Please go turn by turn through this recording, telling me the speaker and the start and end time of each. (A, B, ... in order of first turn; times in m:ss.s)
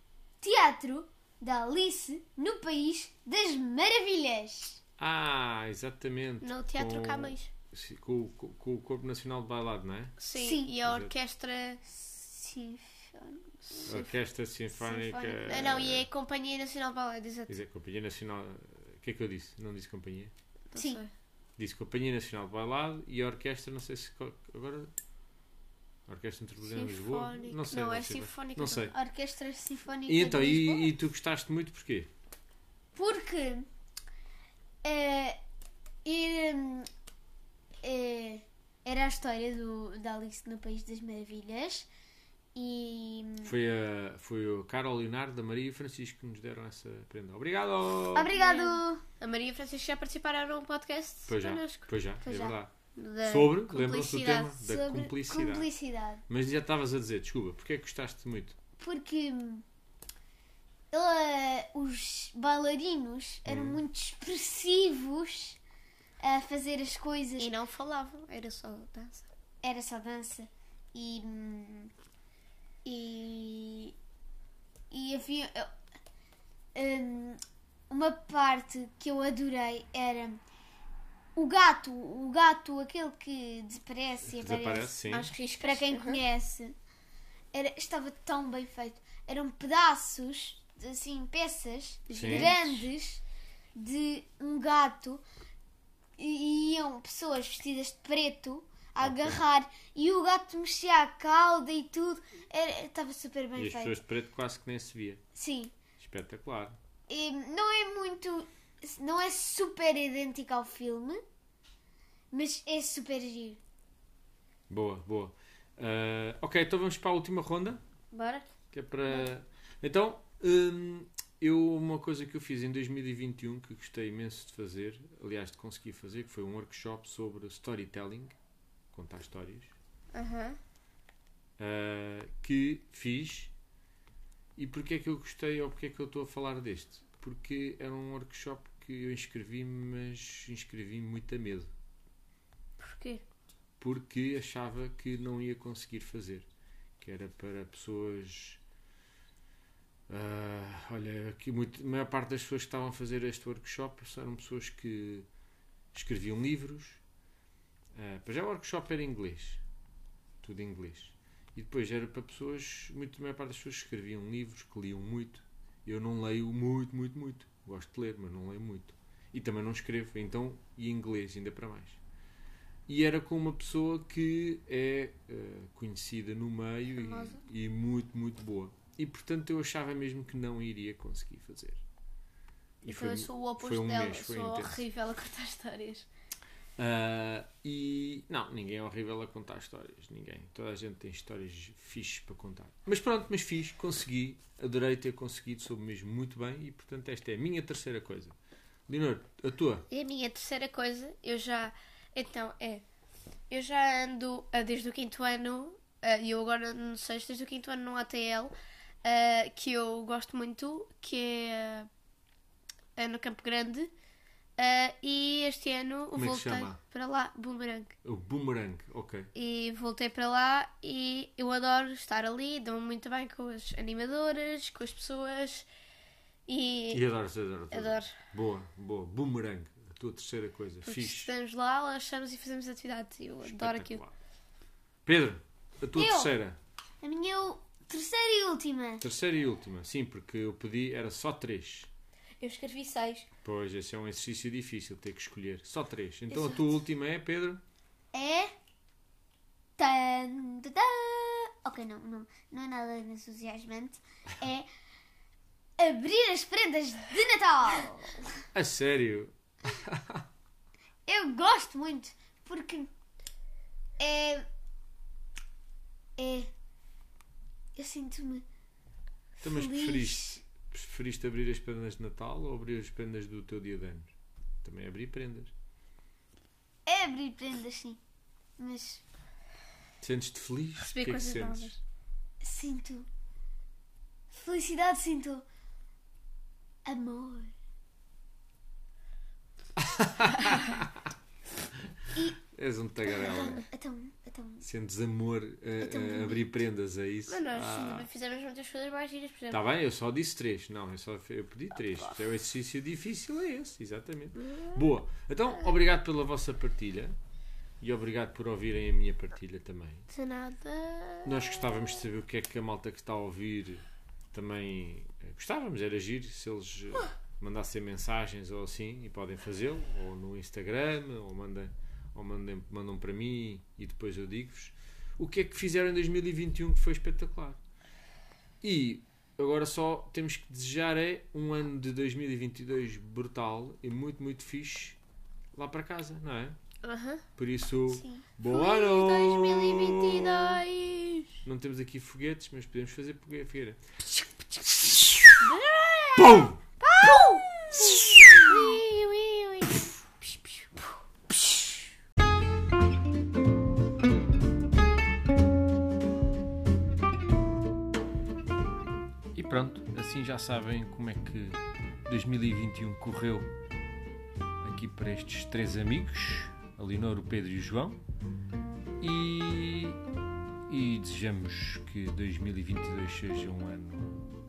0:00.4-0:04.8 A
0:05.0-0:10.2 B
0:06.4-0:07.5 C
0:10.2-0:11.8 C
0:10.3-0:10.7 A
0:10.8-0:11.1 B
0:11.8-0:14.0 A
0:13.6-0:14.1 C
0:13.8-0:16.1 B
0:14.8-0:15.8 A
0:15.5-0:17.5 C
0:17.5-0:20.3 B
0:20.7-0:21.1 C
0:20.8-0:21.0 A
0:21.6-0:24.9 B
0:26.1-0:28.9 B
0:26.6-0:28.9 C
0:28.9-0:30.9 A
0:30.0-0:32.1 B
0:32.9-0:33.7 A
0:34.8-0:35.4 A
0:36.0-0:36.9 A
0:37.8-0:41.9 A
0:42.5-0:43.5 A
0:43.4-0:48.4 B
0:48.1-0:49.0 A
0:48.3-0:51.8 C
0:51.3-0:52.7 B
0:52.2-0:52.6 A
0:52.9-0:54.6 C
0:53.2-0:55.7 B
0:54.6-0:56.2 A
0:56.3-0:58.6 B
0:58.8-0:59.6 A
1:00.9-1:05.6 A
1:03.4-1:03.8 B
1:06.2-1:07.5 A
1:07.4-1:09.3 C
1:09.6-1:11.9 A
1:12.8-1:13.9 A
1:14.9-1:15.7 A
1:16.7-1:20.4 A
1:21.4-1:25.0 A
1:24.3-1:25.3 B
1:25.1-1:26.2 C
1:25.6-1:26.7 A
1:27.5-1:33.2 A
1:32.1-1:32.9 C
1:32.1-1:32.5 B
1:33.8-1:35.2 A
1:36.2-1:44.0 A
1:39.0-1:39.4 B
1:43.5-1:45.2 B
1:45.3-1:45.7 A
1:46.0-1:46.8 B
1:47.1-1:51.2 A
1:52.3-1:53.6 A
1:54.7-1:57.8 B
1:58.1-1:58.5 C
1:58.7-2:08.3 B
2:08.9-2:09.7 B
2:10.1-2:10.6 C
2:11.6-2:13.5 B
2:14.6-2:21.7 B
2:22.8-2:23.2 C
2:23.8-2:26.5 B
2:27.0-2:28.6 B
2:30.1-2:35.3 B
2:35.9-2:37.0 B
2:38.0-2:39.6 B
2:40.4-2:52.0 B
2:52.9-3:01.8 B
2:57.0-2:57.4 C
3:02.8-3:06.0 C
3:02.8-3:04.8 B
3:06.8-3:18.3 B
3:18.9-3:19.8 B
3:19.9-3:22.8 C
3:23.5-3:31.9 C
3:33.0-3:33.9 C
3:34.6-3:37.9 C
3:36.1-3:36.8 B
3:38.0-3:39.3 B
3:39.3-3:45.7 C
3:46.5-3:47.0 C
3:46.9-3:51.3 B
3:47.7-3:48.2 C
3:50.8-3:54.0 C
3:53.4-3:54.1 B
3:55.0-3:56.6 B
3:55.9-3:56.4 A
3:57.0-3:59.0 A
3:59.0-4:01.9 B
4:02.4-4:03.3 C
4:03.4-4:07.6 B
4:06.3-4:06.7 A
4:08.1-4:08.5 A
4:09.8-4:14.7 A
4:15.8-4:18.2 A
4:18.5-4:20.2 B
4:21.0-4:22.9 A
4:24.0-4:24.4 A
4:26.2-4:26.5 A
4:27.7-4:28.4 A
4:29.4-4:30.4 A
4:29.4-4:34.1 B
4:34.6-4:35.5 B
4:36.8-4:38.0 A
4:38.6-4:39.0 A
4:40.0-4:41.7 B
4:40.8-4:41.8 C
4:42.4-4:43.1 A
4:44.3-4:45.4 A
4:46.8-4:47.5 A
4:49.8-4:50.8 B
4:52.5-4:53.6 B
4:53.0-4:54.6 A
4:54.6-4:58.1 B
4:55.8-4:56.6 A
4:57.3-4:59.6 C
4:59.5-5:07.2 B
5:01.9-5:02.2 C
5:04.4-5:04.8 C
5:07.8-5:10.1 B
5:10.1-5:11.5 C
5:11.2-5:27.6 B
5:28.6-5:35.0 B
5:35.5-5:36.6 B
5:36.8-5:37.2 C
5:37.4-5:40.6 B
5:37.9-5:38.3 A
5:38.4-5:41.4 C
5:41.4-5:43.8 B
5:45.4-5:46.4 C
5:46.2-5:46.6 B
5:46.8-5:48.7 A
5:47.0-5:47.8 C
5:47.6-5:48.3 B
5:48.4-5:50.2 C
5:59.3-6:03.5 B
6:04.6-6:08.0 B
6:09.0-6:10.0 B
6:10.7-6:14.3 B